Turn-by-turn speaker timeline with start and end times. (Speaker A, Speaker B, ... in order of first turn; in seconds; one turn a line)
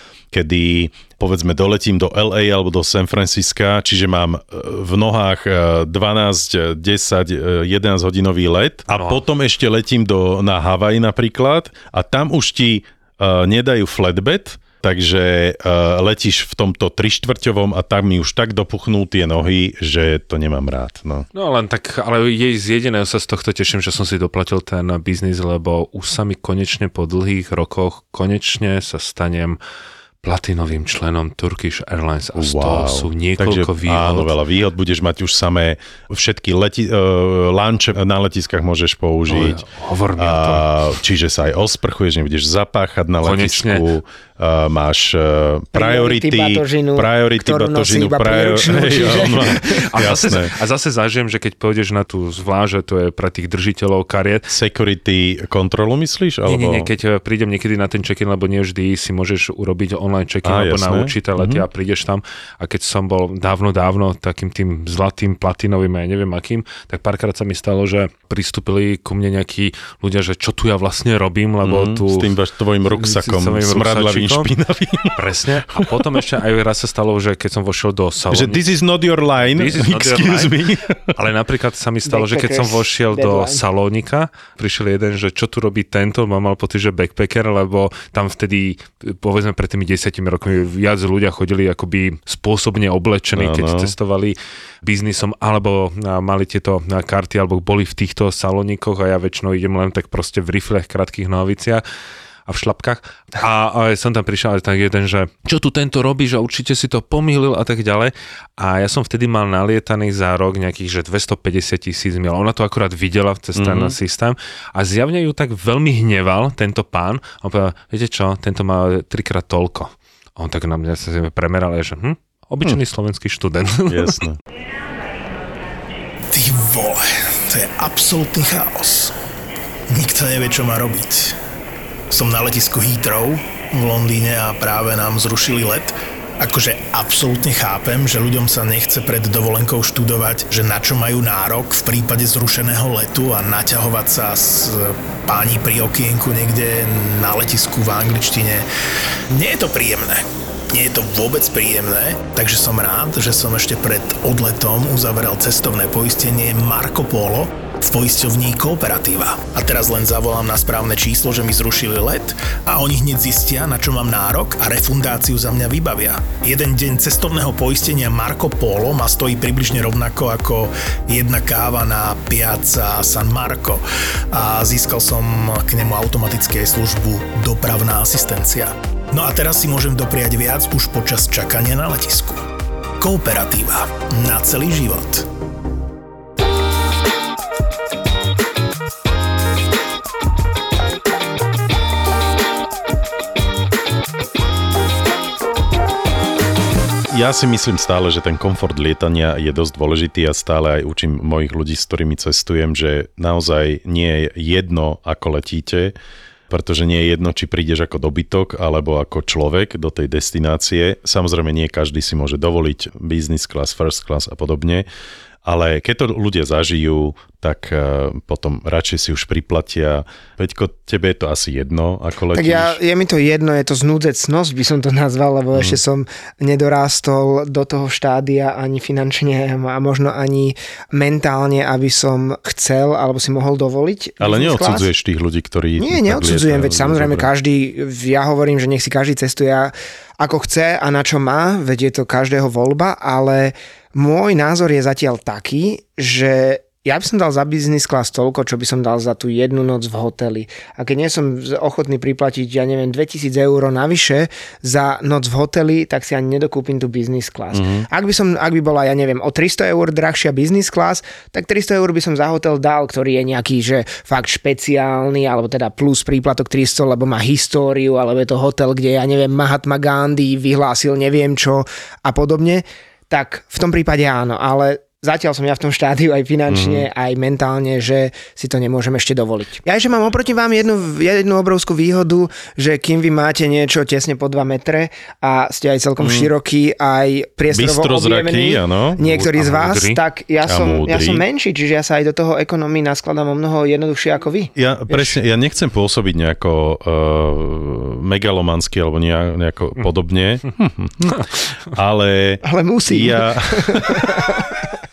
Speaker A: 0.3-21.2
Speaker B: 8.9-9.2
Speaker B: 21.3-29.6
Speaker B: 30.2-34.3
Speaker A: 32.3-39.6
Speaker B: 39.3-40.9
Speaker A: 40.2-50.5
Speaker B: 43.2-43.8
Speaker C: 45.7-50.1
Speaker B: 49.0-54.5
Speaker A: 54.5-56.9
Speaker B: 56.5-72.3
Speaker A: 60.4-61.6
Speaker A: 71.6-76.0
Speaker B: 72.8-74.5
Speaker B: 75.2-78.6
Speaker A: 78.3-81.2
Speaker B: 79.5-80.5
Speaker B: 81.1-101.8
Speaker C: 82.0-83.6
Speaker A: 93.3-93.9
Speaker B: 102.5-124.2
Speaker A: 113.5-114.0
Speaker A: 123.9-124.4
Speaker D: 126.3-129.1
Speaker D: 129.9-131.4
Speaker D: 132.1-148.7
Speaker D: 149.3-182.5
Speaker D: 183.0-185.3
Speaker A: 197.1-205.9
Speaker A: 206.5-214.8
Speaker A: 215.4-222.8
Speaker C: 222.3-234.9
Speaker A: 225.5-225.8
Speaker A: 234.2-237.3
Speaker C: 235.8-295.2
Speaker A: 257.5-257.9
Speaker A: 276.5-276.9
Speaker A: 286.0-286.3
Speaker A: 287.5-289.0
Speaker B: 289.0-290.0
Speaker A: 290.4-291.2
Speaker A: 294.6-304.1
Speaker C: 302.4-304.6